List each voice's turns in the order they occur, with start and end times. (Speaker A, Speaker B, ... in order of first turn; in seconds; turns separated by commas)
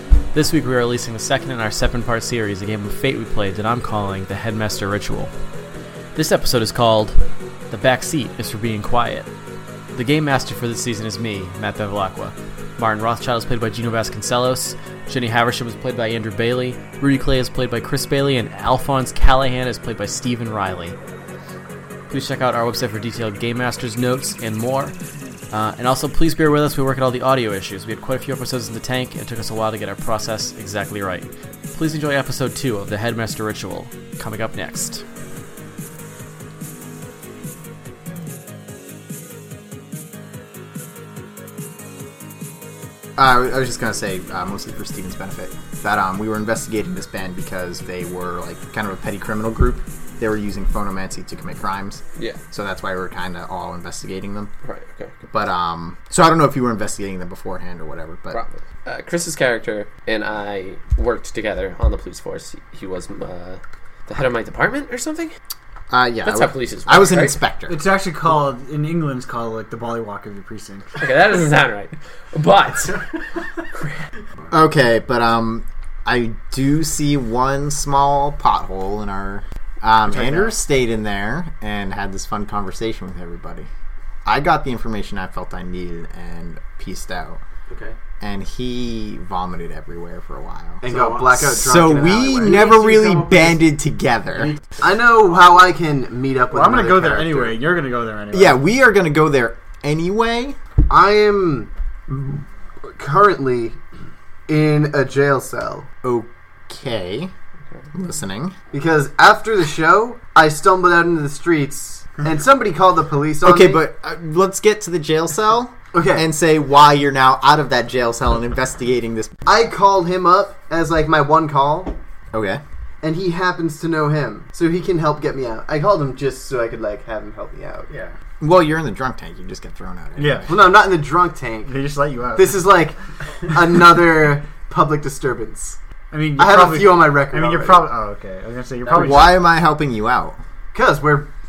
Speaker A: 0.3-5.3, Speaker A: 6.2-9.3, Speaker A: 9.9-21.0, Speaker A: 22.1-24.9, Speaker A: 25.5-35.0, Speaker B: 43.2-54.5, Speaker C: 54.6-55.1, Speaker B: 55.3-58.4, Speaker C: 58.3-65.4, Speaker B: 65.9-67.8, Speaker C: 66.2-67.4, Speaker D: 67.7-70.9, Speaker C: 71.0-73.0, Speaker B: 74.5-83.7, Speaker D: 80.1-80.5, Speaker B: 84.2-87.4, Speaker A: 87.7-88.0, Speaker B: 88.2-90.8, Speaker E: 90.8-93.2, Speaker A: 90.8-91.4, Speaker B: 91.4-94.5, Speaker A: 92.4-93.6, Speaker E: 94.8-97.6, Speaker D: 96.5-98.6, Speaker B: 98.3-100.6, Speaker E: 100.9-103.8, Speaker E: 104.5-105.9, Speaker B: 106.0-107.3, Speaker B: 107.9-108.5, Speaker E: 108.7-113.8, Speaker B: 113.4-119.4, Speaker E: 115.9-116.3, Speaker E: 119.5-122.0, Speaker B: 122.3-122.6, Speaker E: 123.0-127.9, Speaker A: 127.9-128.2, Speaker B: 128.4-130.5, Speaker D: 130.2-130.6, Speaker E: 130.4-135.8, Speaker D: 131.7-132.7, Speaker D: 136.1-139.4, Speaker E: 136.4-137.9, Speaker B: 138.9-140.4, Speaker E: 140.7-141.3